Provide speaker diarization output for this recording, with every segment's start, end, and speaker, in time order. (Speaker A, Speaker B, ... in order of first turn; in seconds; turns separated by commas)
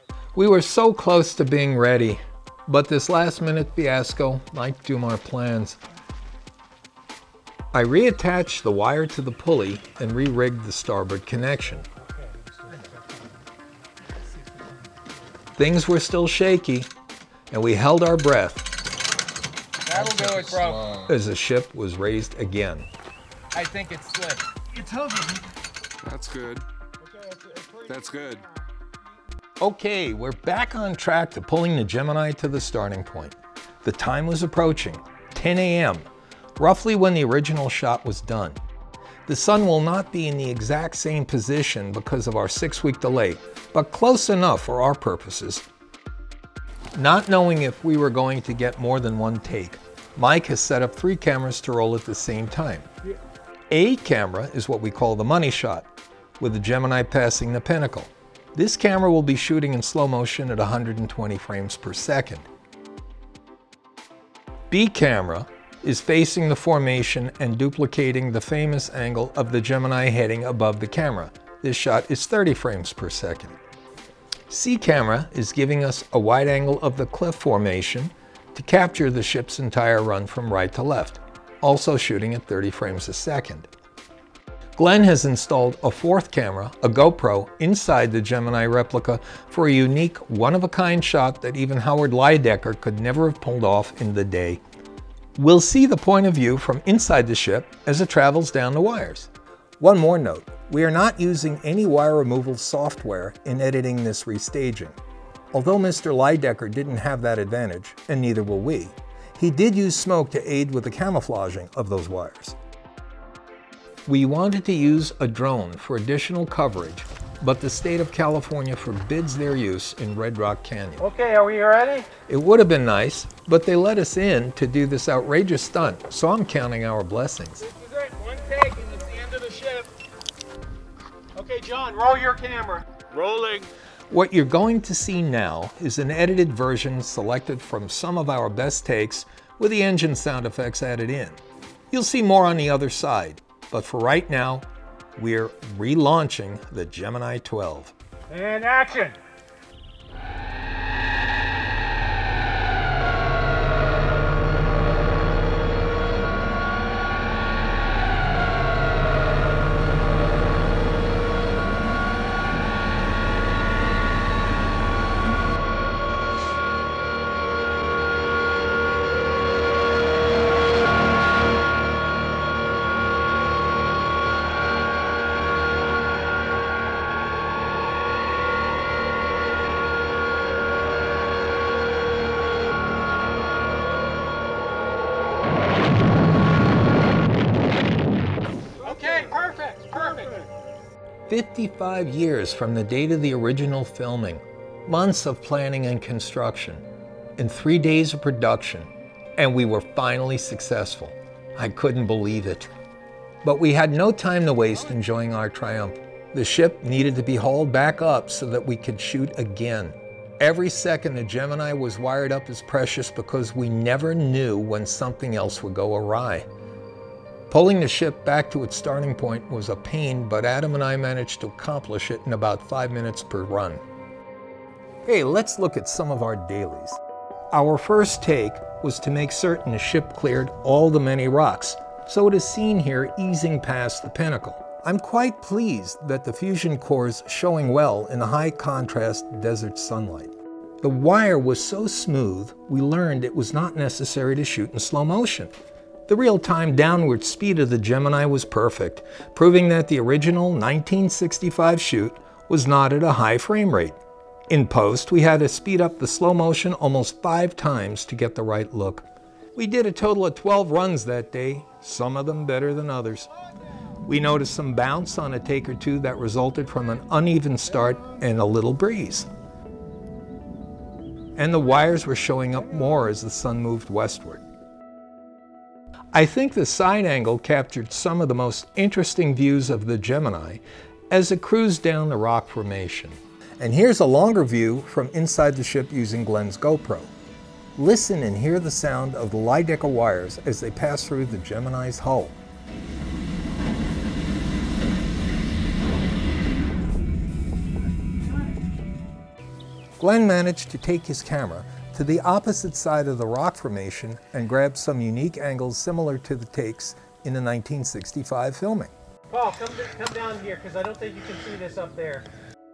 Speaker A: 0.3-5.8, Speaker A: 7.7-11.9, Speaker B: 12.0-13.2, Speaker A: 15.6-16.9, Speaker A: 17.5-18.7, Speaker A: 19.9-22.9, Speaker B: 19.9-20.8, Speaker A: 23.6-24.5, Speaker B: 24.6-25.4, Speaker A: 26.0-26.6, Speaker B: 27.0-28.5, Speaker A: 28.1-28.4, Speaker A: 29.6-38.6, Speaker A: 39.3-45.7, Speaker A: 46.9-52.9, Speaker A: 53.7-55.9, Speaker A: 56.4-62.5, Speaker A: 64.7-73.6, Speaker A: 74.5-83.7, Speaker A: 84.8-94.6, Speaker A: 95.4-105.0, Speaker A: 105.5-112.6, Speaker A: 114.1-121.1, Speaker B: 121.0-122.1, Speaker A: 122.3-127.7, Speaker B: 127.6-129.9, Speaker B: 131.4-133.7, Speaker A: 134.1-147.9, Speaker B: 148.3-149.2, Speaker B: 188.8-190.5, Speaker A: 191.3-196.8, Speaker A: 197.4-202.7, Speaker A: 203.4-216.5, Speaker A: 217.5-223.8, Speaker A: 225.1-227.0, Speaker A: 227.5-245.5, Speaker A: 246.1-254.0, Speaker A: 254.5-263.3, Speaker A: 264.0-269.3, Speaker A: 271.4-274.4, Speaker A: 276.1-287.1, Speaker A: 287.8-292.4, Speaker A: 300.0-308.9, Speaker B: 309.3-312.3